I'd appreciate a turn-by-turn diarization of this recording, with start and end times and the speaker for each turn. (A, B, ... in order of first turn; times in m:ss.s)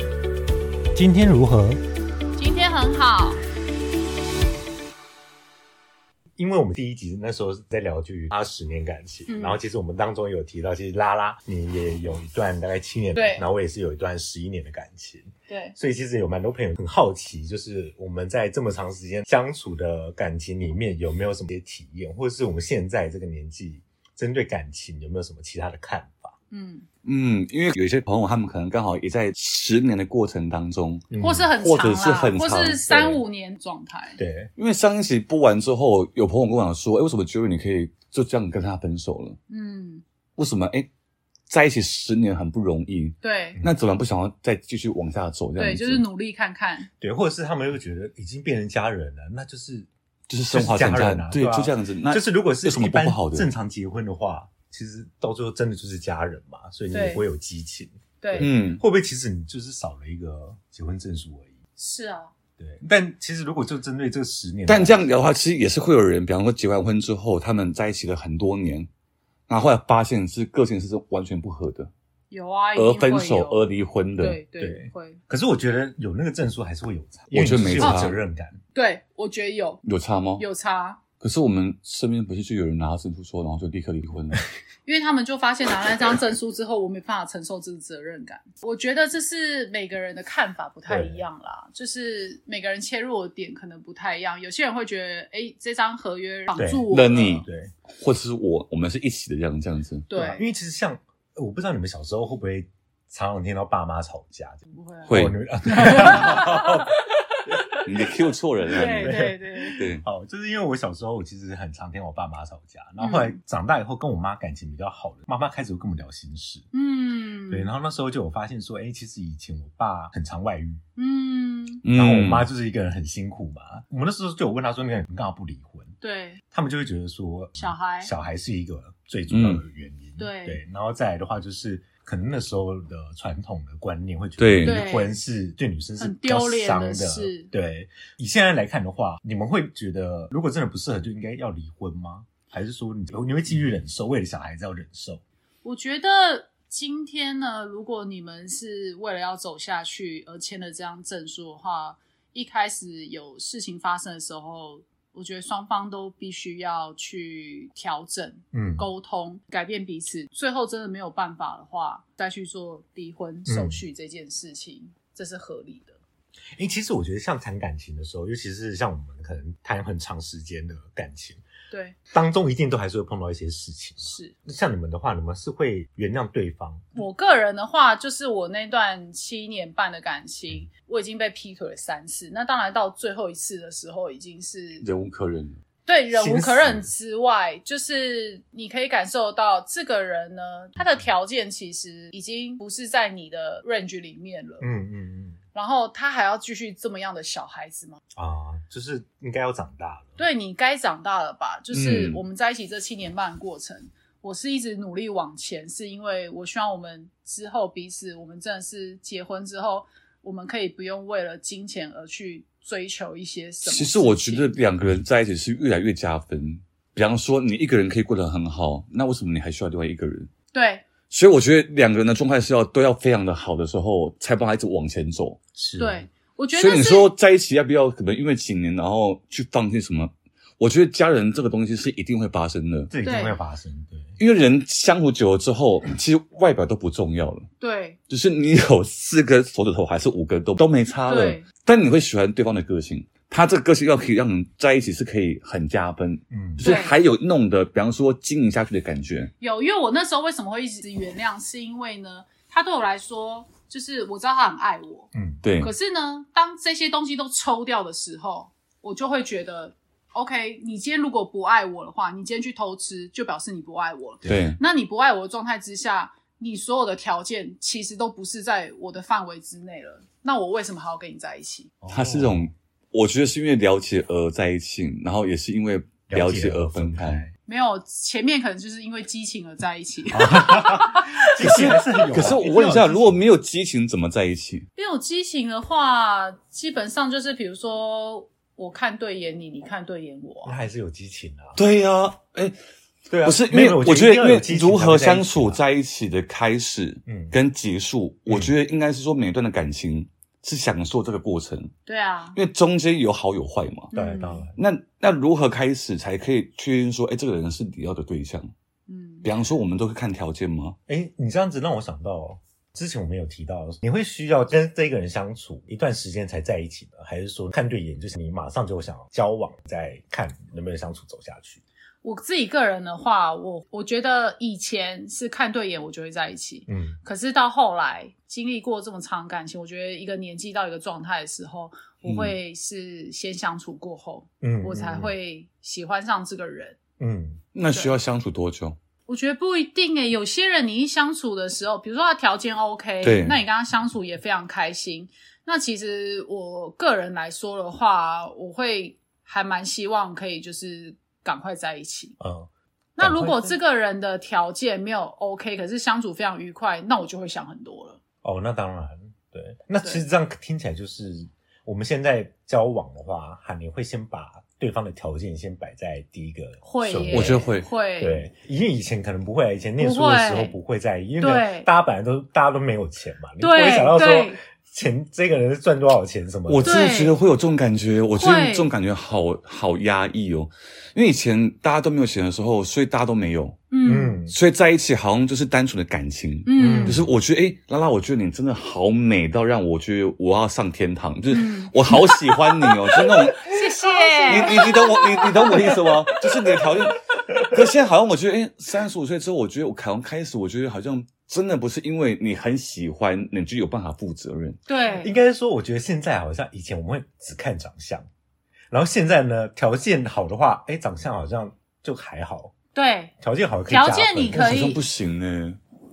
0:00.9-0:01.8 A
0:02.4-0:03.4 B
0:06.4-0:26.4 A
0:09.3-0:09.6 B
0:13.2-0:13.5 B
0:15.5-0:15.8 B
0:26.5-0:26.9 B
0:27.0-0:32.8 C
0:31.1-0:31.5 A
0:31.2-0:34.2 B
0:32.8-0:33.2 A
0:34.2-0:34.5 A
0:34.6-0:39.4 C
0:39.5-0:40.0 B
0:40.4-0:40.9 C
0:41.5-0:46.0 C
0:43.2-0:43.6 B
0:45.6-0:46.9 B
0:47.0-0:49.9 A
0:50.3-0:53.5 C
0:50.4-1:01.6 A
0:56.9-0:57.2 B
0:58.2-0:58.5 B
0:58.4-0:58.8 C
1:01.8-1:02.3 B
1:02.6-1:05.1 A
1:04.7-1:08.9 C
1:09.5-1:11.9 C
1:12.3-1:15.2 B
1:12.8-1:14.4 C
1:14.6-1:18.6 A
1:17.3-1:18.2 C
1:17.8-1:18.1 B
1:18.7-1:19.8 B
1:19.8-1:20.5 C
1:20.4-1:21.0 B
1:21.2-1:24.4 C
1:24.8-1:37.4 B
1:30.9-1:31.2 A
1:36.6-1:37.7 A
1:36.9-1:40.1 C
1:40.1-1:40.4 B
1:40.1-1:46.9 A
1:44.7-1:47.9 B
1:45.1-1:45.4 C
1:46.1-1:46.4 C
1:47.5-1:47.8 A
1:47.8-1:50.0 C
1:48.7-1:49.8 B
1:48.7-1:56.6 A
1:53.0-1:53.4 B
1:56.7-1:57.7 B
1:57.5-2:00.8 A
2:01.0-2:01.8 B
2:01.8-2:02.5 C
2:01.9-2:05.9 A
2:06.0-2:06.4 B
2:06.5-2:25.2 A
2:07.6-2:08.1 B
2:09.3-2:09.6 C
2:10.2-2:10.6 B
2:14.4-2:14.8 C
2:14.6-2:15.1 B
2:16.0-2:17.5 B
2:25.6-2:46.0 B
2:38.5-2:38.9 A
2:43.5-2:43.8 A
2:46.6-2:51.4 A
2:51.7-2:52.0 B
2:52.1-2:56.8 A
2:54.0-2:54.3 B
2:57.0-3:04.9 B
3:04.8-3:05.6 C
3:05.9-3:14.7 B
3:06.1-3:06.9 A
3:14.6-3:15.4 A
3:15.5-3:18.0 B
3:18.2-3:20.2 A
3:20.2-3:34.5 B
3:21.7-3:22.2 C
3:33.6-3:40.3 C
3:40.5-3:40.8 B
3:41.1-3:45.4 C
3:45.6-3:46.1 A
3:45.8-3:47.1 B
3:46.6-3:52.9 C
3:52.9-3:54.2 A
3:53.0-3:53.4 B
3:54.2-3:57.5 C
3:57.6-3:58.0 B
3:58.1-4:09.3 C
4:01.1-4:01.4 B
4:06.3-4:06.7 A
4:06.6-4:07.0 B
4:09.4-4:31.7 B
4:15.1-4:15.4 A
4:15.4-4:15.7 C
4:24.2-4:24.6 C
4:31.8-4:32.5 A
4:31.9-4:37.2 C
4:36.1-4:37.3 A
4:37.5-4:42.1 B
4:40.1-4:43.2 A
4:41.4-4:44.7 C
4:44.8-4:50.6 B
4:50.4-4:51.6 A
4:51.6-4:52.6 C
4:53.1-4:55.6 A
4:53.2-5:01.7 C
4:57.1-4:57.4 A
4:58.3-4:58.5 A
5:01.9-5:02.4 B
5:02.4-5:03.9 C
5:03.9-5:04.5 B
5:03.9-5:04.6 A
5:04.6-5:08.5 C
5:08.9-5:09.3 B
5:09.2-5:10.8 C
5:10.9-5:21.6 A
5:22.0-5:36.8 B
5:26.7-5:27.0 A
5:32.0-5:32.4 A
5:34.4-5:35.1 A
5:37.0-5:37.4 A
5:37.6-5:38.8 C
5:37.7-5:38.0 B
5:39.1-5:52.2 B
5:43.0-5:43.4 C
5:52.2-5:53.6 A
5:53.0-5:58.0 B
5:58.2-6:07.5 A
6:06.6-6:08.3 B
6:07.1-6:07.7 C
6:08.0-6:16.8 A
6:09.8-6:10.6 B
6:11.2-6:11.7 B
6:13.4-6:14.4 B
6:16.5-6:23.6 C
6:16.6-6:17.2 B
6:18.1-6:18.7 B
6:23.7-6:24.2 B
6:23.8-6:24.4 A
6:24.3-6:33.6 C
6:26.4-6:27.0 B
6:26.6-6:27.1 A
6:31.3-6:36.2 B
6:34.3-6:44.6 C
6:44.7-6:45.1 B
6:44.9-6:48.1 A
6:48.7-6:52.5 A
6:52.7-6:53.1 B
6:53.2-6:54.5 A
6:53.7-6:54.8 B
6:54.3-6:55.6 C